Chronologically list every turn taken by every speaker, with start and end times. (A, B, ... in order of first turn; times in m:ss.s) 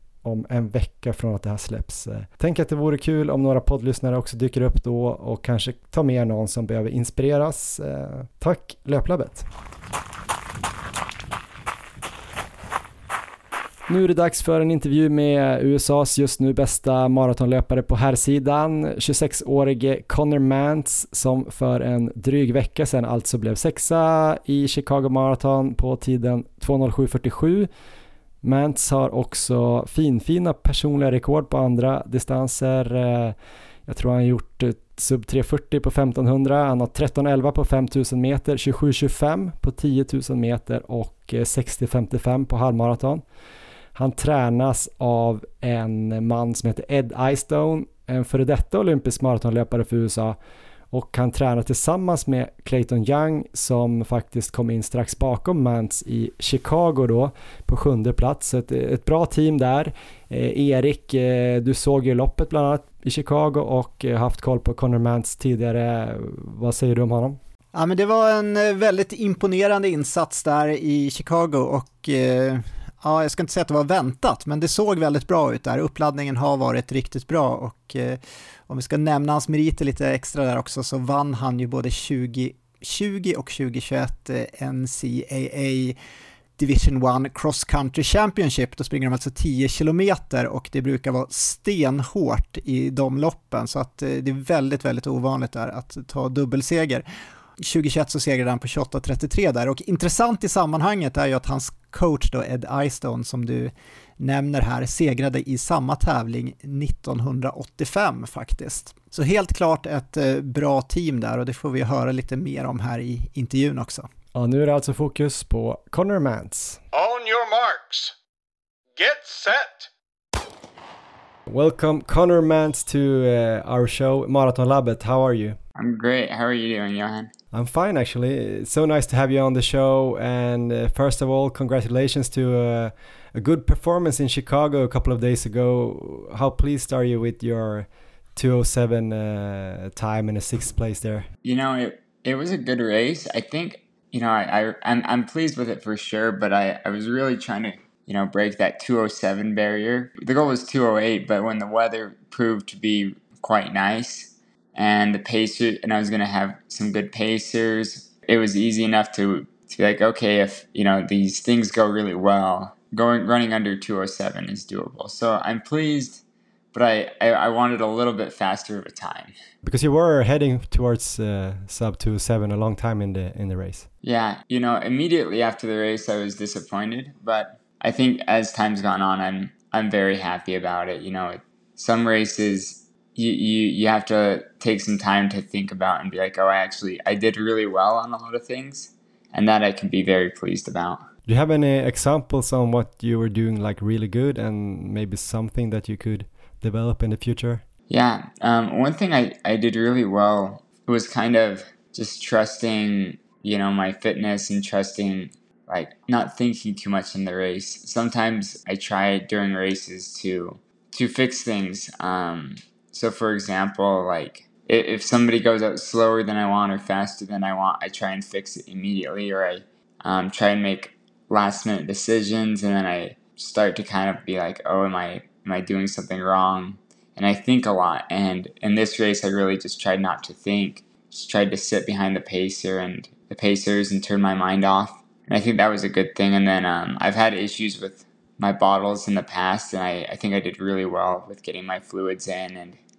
0:00.2-0:09.5 A
0:13.9-0:27.7 A
0:28.4-0:43.2 A
0:43.9-0:50.4 A
0:50.9-1:07.4 A
1:07.7-1:26.0 B
1:26.6-1:37.0 B
1:37.6-1:54.1 B
1:54.3-1:56.8 A
1:56.9-1:58.1 C
1:59.0-1:59.9 C
2:01.5-2:05.6 A
2:05.8-2:07.3 D
2:07.5-2:21.3 A
2:21.4-2:46.2 D
2:46.7-2:49.3 D
2:49.6-2:53.9 A
2:54.0-3:11.0 D
3:11.2-3:17.6 A
3:17.9-4:02.8 D